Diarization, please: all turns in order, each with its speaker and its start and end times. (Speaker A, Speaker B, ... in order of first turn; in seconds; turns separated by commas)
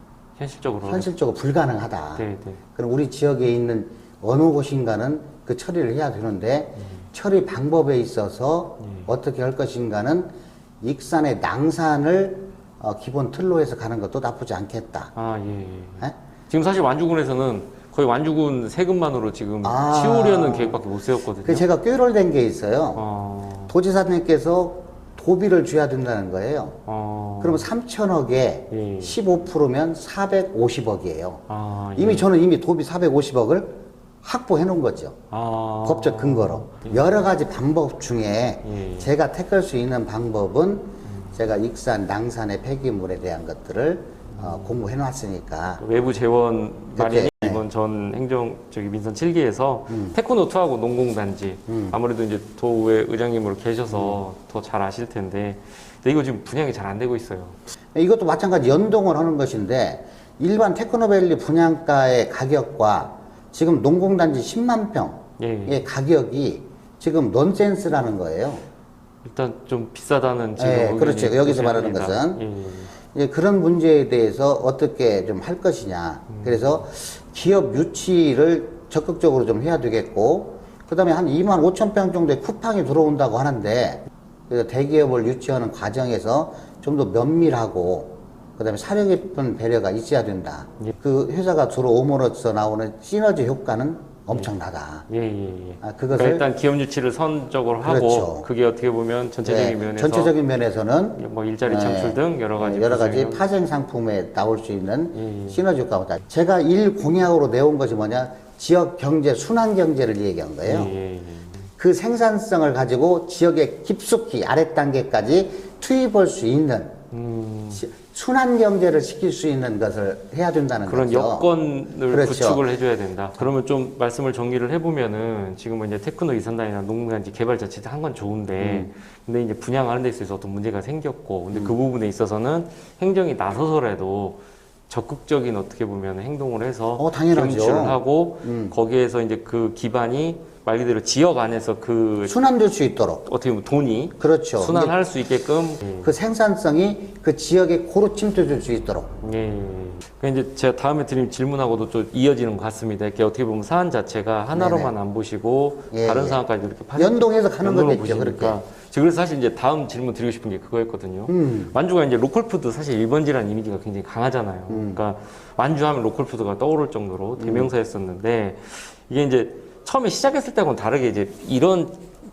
Speaker A: 0.4-1.1, Speaker B: 0.8-10.3, Speaker A: 2.2-2.6, Speaker A: 8.8-9.1, Speaker B: 10.8-15.1, Speaker A: 15.1-21.6, Speaker B: 19.6-20.8, Speaker B: 21.4-23.0, Speaker A: 22.9-23.7, Speaker B: 23.7-26.8, Speaker A: 26.9-27.7, Speaker B: 27.4-31.4, Speaker A: 28.7-29.2, Speaker A: 31.5-32.3, Speaker B: 31.9-35.2, Speaker A: 35.3-37.0, Speaker B: 35.8-45.8, Speaker A: 38.6-39.1, Speaker A: 44.4-44.7, Speaker A: 45.8-57.6, Speaker B: 47.0-47.6, Speaker B: 49.9-50.2, Speaker B: 51.7-52.0, Speaker B: 53.9-54.2, Speaker B: 57.9-68.6, Speaker A: 65.4-65.8, Speaker A: 69.2-72.9, Speaker B: 70.6-72.4, Speaker B: 73.1-95.1, Speaker A: 76.3-76.7, Speaker A: 95.1-100.3, Speaker B: 95.8-96.5, Speaker B: 97.8-98.5, Speaker B: 99.4-110.9, Speaker A: 101.2-103.4, Speaker A: 105.1-105.6, Speaker A: 110.6-111.6, Speaker B: 111.8-117.0, Speaker A: 117.1-117.8, Speaker B: 117.7-121.5, Speaker A: 120.8-142.3, Speaker B: 122.1-122.6, Speaker B: 128.6-128.9, Speaker B: 137.0-138.7, Speaker B: 142.3-143.2, Speaker A: 143.2-146.1, Speaker B: 144.2-144.9, Speaker B: 146.0-149.1, Speaker A: 149.2-172.0, Speaker B: 154.5-154.9, Speaker B: 155.9-156.4, Speaker B: 156.9-158.6, Speaker B: 161.3-161.7, Speaker B: 164.7-165.0, Speaker B: 167.4-167.7